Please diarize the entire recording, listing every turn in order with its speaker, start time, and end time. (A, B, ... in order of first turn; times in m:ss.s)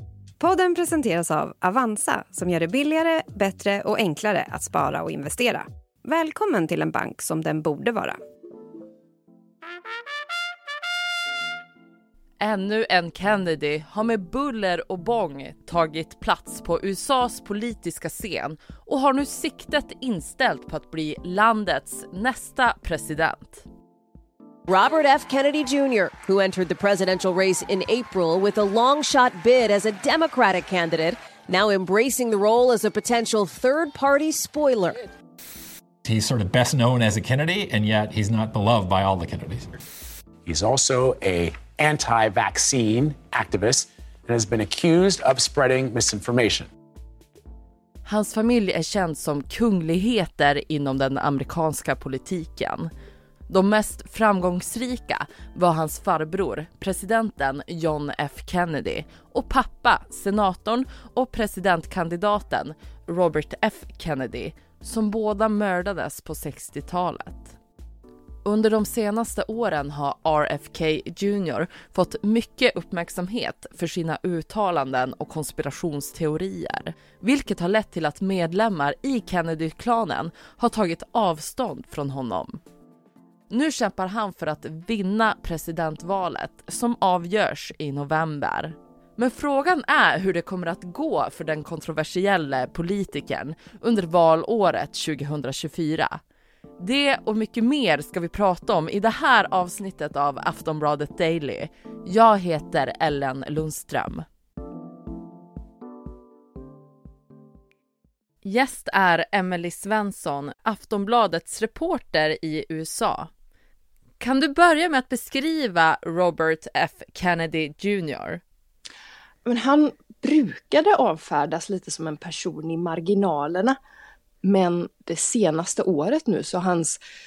0:00.4-0:08.2 A
0:12.4-0:23.6 B
0:24.7-0:34.9 C
0:36.1-0:39.7 D
0:40.5-0:46.7 E
0:48.0-0:52.9 B
0:53.5-1:07.6 B
1:08.4-1:22.6 B
1:23.5-1:36.2 B
1:36.8-1:44.2 B
1:48.4-1:53.3 B
1:54.2-1:58.4 B
1:59.4-2:03.8 F
2:04.4-2:07.0 F